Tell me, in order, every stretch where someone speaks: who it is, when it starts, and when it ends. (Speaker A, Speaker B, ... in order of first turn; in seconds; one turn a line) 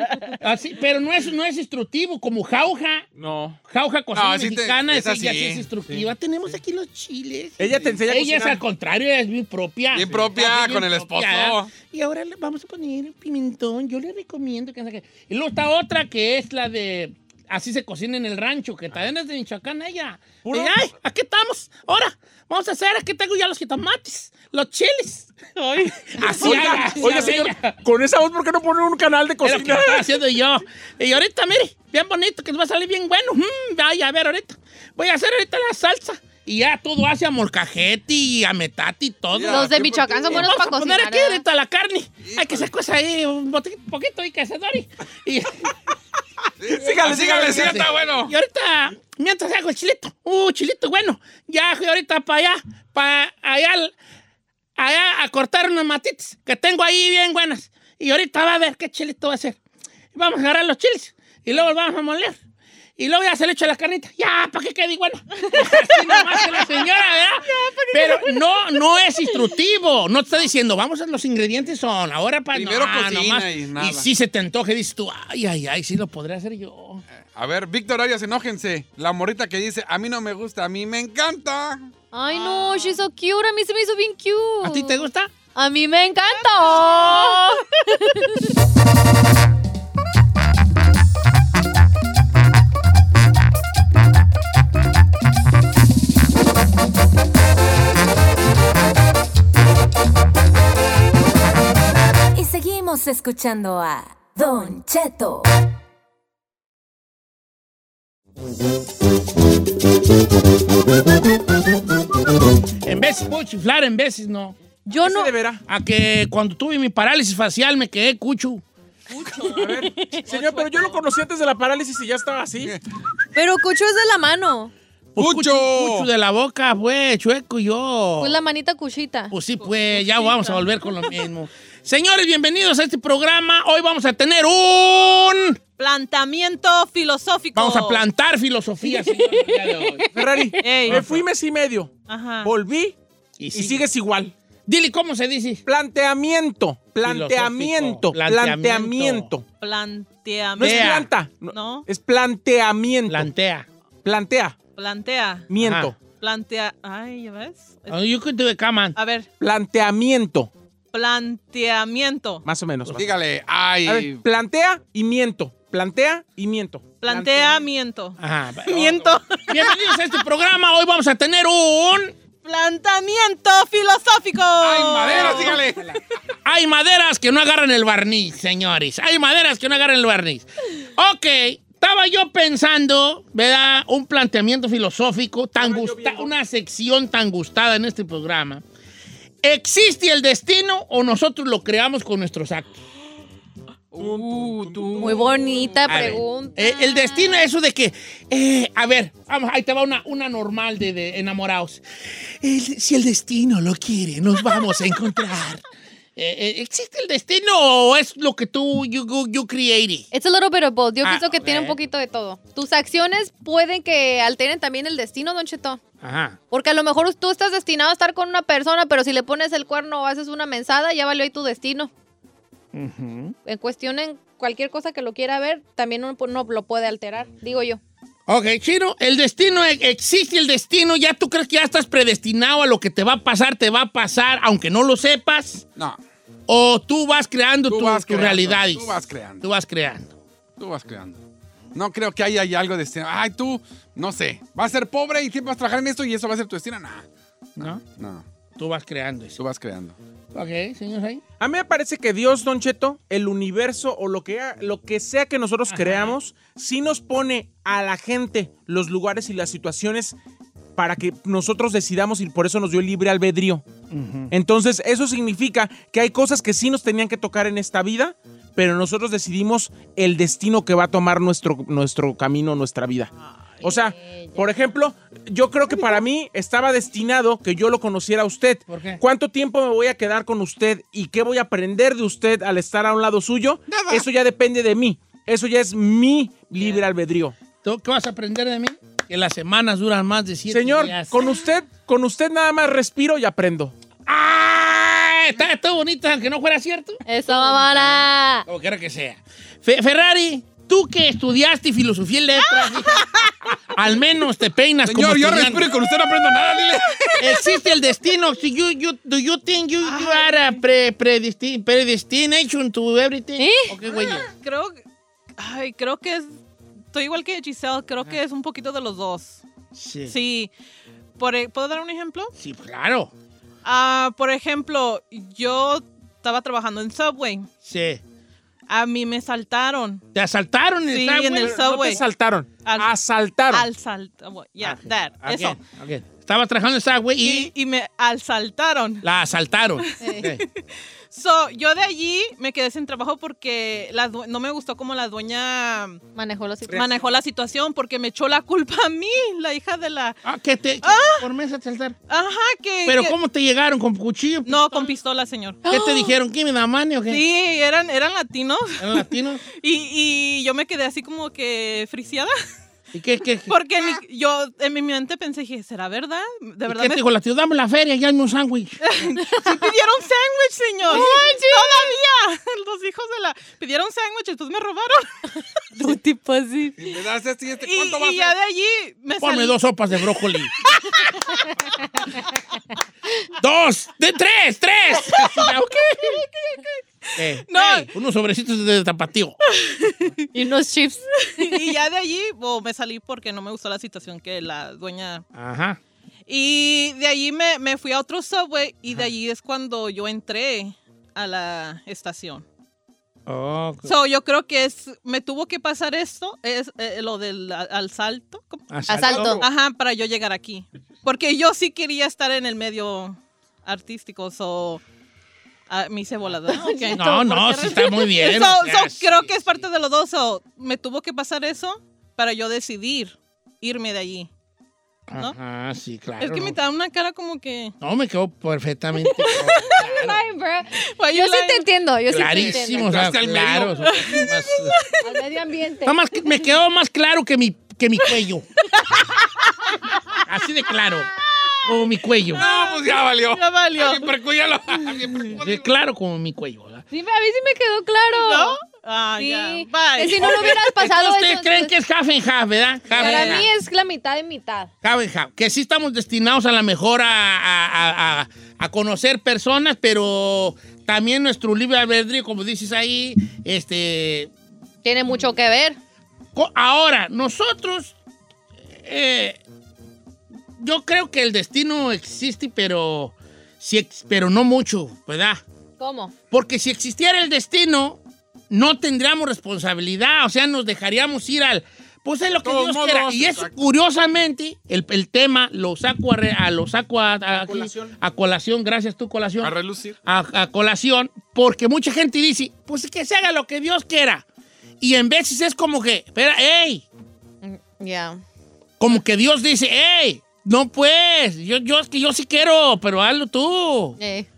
Speaker A: 0.2-3.1
Speaker B: 3.2-3.6
Speaker A: 3.7-25.3
Speaker C: 4.2-5.7
Speaker B: 7.6-8.6
Speaker C: 9.9-11.7
Speaker B: 20.4-20.8
Speaker D: 25.6-27.2
Speaker A: 26.1-27.8
Speaker B: 26.3-30.1
Speaker A: 29.4-45.8
Speaker C: 39.3-40.5
Speaker E: 39.5-41.4
Speaker C: 42.2-42.7
Speaker C: 46.6-48.4
Speaker B: 46.7-47.9
Speaker A: 47.0-53.9
Speaker A: 54.8-59.6
Speaker A: 60.1-62.4
Speaker A: 63.0-77.0
Speaker D: 65.4-68.4
Speaker C: 72.5-74.1
Speaker C: 77.3-81.9
Speaker E: 82.1-88.4
Speaker D: 82.3-83.0
Speaker A: 84.6-85.3
Speaker D: 86.2-87.6
Speaker F: 102.3-105.5
Speaker A: 112.8-114.6
Speaker E: 114.9-115.3
Speaker B: 114.9-115.6
Speaker A: 115.7-118.6
Speaker D: 119.1-121.0
Speaker B: 119.5-122.8
Speaker E: 123.3-124.7
Speaker A: 125.2-128.4
Speaker C: 125.2-126.1
Speaker E: 128.2-129.3
Speaker A: 129.3-135.6
Speaker D: 129.6-131.2
Speaker D: 135.8-138.0
Speaker A: 137.6-141.2
Speaker B: 140.1-143.0
Speaker D: 140.6-141.1
Speaker D: 142.1-142.5
Speaker A: 143.4-143.8
Speaker B: 143.5-144.3
Speaker A: 144.7-145.6
Speaker B: 145.7-149.5
Speaker A: 147.0-149.3
Speaker D: 149.6-151.0
Speaker B: 150.6-153.3
Speaker A: 150.6-151.1
Speaker D: 151.5-151.9
Speaker A: 153.1-153.7
Speaker B: 154.0-154.6
Speaker D: 154.7-158.0
Speaker B: 155.5-156.0
Speaker A: 155.6-155.9
Speaker A: 157.9-159.0
Speaker D: 158.9-159.3
Speaker B: 159.4-160.5
Speaker D: 160.9-162.4
Speaker B: 162.5-163.1
Speaker C: 162.9-164.2
Speaker B: 163.8-167.6
Speaker D: 167.0-170.2
Speaker A: 168.2-172.2
Speaker D: 172.4-175.7
Speaker C: 174.6-175.8
Speaker A: 175.1-175.9
Speaker A: 176.4-188.6
Speaker B: 185.6-186.3
Speaker A: 189.4-192.8
Speaker B: 193.9-195.8
Speaker C: 194.0-195.0
Speaker E: 195.0-197.5
Speaker A: 195.9-205.6
Speaker A: 206.2-210.1
Speaker E: 210.1-215.8
Speaker A: 211.0-211.8
Speaker A: 216.0-216.4
Speaker E: 216.5-221.9
Speaker A: 222.7-223.4
Speaker E: 223.4-227.8
Speaker A: 228.3-235.7
Speaker A: 236.5-240.2
Speaker C: 237.7-239.5
Speaker C: 240.6-241.2
Speaker C: 241.7-248.2
Speaker A: 247.6-247.8
Speaker A: 248.6-249.4
Speaker C: 249.4-250.0
Speaker A: 250.3-251.2
Speaker B: 251.4-260.2
Speaker A: 255.7-256.1
Speaker B: 260.8-263.6
Speaker A: 263.9-264.3
Speaker B: 264.3-287.4
Speaker D: 273.2-273.5
Speaker E: 273.6-274.5
Speaker A: 278.7-279.0
Speaker C: 283.7-284.1
Speaker A: 287.6-291.2
Speaker B: 290.5-293.7
Speaker A: 294.1-305.7
Speaker E: 297.1-298.5
Speaker D: 302.9-303.3
Speaker C: 304.9-307.2
Speaker D: 306.6-307.4
Speaker A: 307.2-314.3
Speaker D: 309.8-310.6
Speaker E: 313.4-313.8
Speaker D: 313.9-314.8
Speaker D: 315.4-316.3
Speaker D: 316.9-319.4
Speaker A: 319.8-320.1
Speaker D: 320.1-320.5
Speaker D: 321.2-322.3
Speaker A: 322.4-323.1
Speaker D: 323.6-327.5
Speaker A: 327.6-328.0
Speaker D: 328.7-330.0
Speaker A: 330.1-331.7
Speaker D: 330.9-332.0
Speaker B: 331.4-333.7
Speaker D: 332.6-332.9
Speaker D: 333.5-335.6
Speaker A: 334.6-337.5
Speaker D: 337.2-339.1
Speaker A: 339.0-340.4
Speaker D: 339.8-346.0
Speaker E: 340.0-340.3
Speaker E: 346.1-347.0
Speaker D: 346.7-350.2
Speaker A: 350.2-352.0
Speaker D: 350.8-351.3
Speaker D: 352.1-353.2
Speaker A: 352.9-354.9
Speaker D: 354.4-355.7
Speaker A: 355.7-357.2
Speaker E: 355.7-356.1
Speaker D: 357.1-362.3
Speaker A: 358.8-359.4
Speaker A: 362.9-363.6
Speaker D: 363.5-367.0
Speaker A: 366.7-368.8
Speaker D: 368.8-375.9
Speaker E: 370.9-372.0
Speaker E: 375.8-376.9
Speaker C: 376.8-378.4
Speaker D: 377.6-379.6
Speaker A: 379.2-380.7
Speaker D: 380.6-381.5
Speaker A: 383.4-386.3
Speaker D: 385.0-387.9
Speaker A: 387.2-389.4
Speaker D: 389.5-390.3
Speaker E: 390.3-391.7
Speaker D: 391.1-395.2
Speaker A: 395.3-395.8
Speaker D: 396.3-402.4
Speaker A: 403.3-404.0
Speaker D: 403.9-414.8
Speaker A: 408.7-409.4
Speaker E: 408.9-409.5
Speaker D: 415.7-424.3
Speaker E: 416.4-417.2
Speaker A: 416.9-419.7
Speaker A: 425.1-426.6
Speaker D: 426.2-427.8
Speaker A: 427.8-430.2
Speaker D: 429.2-429.8
Speaker E: 429.6-433.1
Speaker D: 430.8-431.7
Speaker A: 432.1-434.8
Speaker C: 432.2-434.1
Speaker D: 433.9-435.2
Speaker E: 435.0-436.3
Speaker A: 435.9-438.5
Speaker D: 438.9-440.2
Speaker A: 440.2-441.1
Speaker A: 441.6-442.4
Speaker D: 442.3-444.1
Speaker C: 442.3-445.7
Speaker A: 445.3-446.8
Speaker E: 446.9-448.6
Speaker D: 448.1-450.5
Speaker E: 449.2-451.7
Speaker A: 450.2-453.5
Speaker E: 452.9-454.7
Speaker D: 453.0-453.5
Speaker A: 454.8-464.3
Speaker E: 464.8-465.8
Speaker A: 466.4-467.9
Speaker A: 468.8-469.4
Speaker A: 470.6-475.4
Speaker E: 475.8-476.1
Speaker A: 476.3-494.2
Speaker C: 482.3-483.7
Speaker B: 487.3-488.0
Speaker C: 489.4-490.0
Speaker A: 494.8-496.9
Speaker E: 497.4-498.2
Speaker A: 498.8-504.0
Speaker E: 504.0-504.3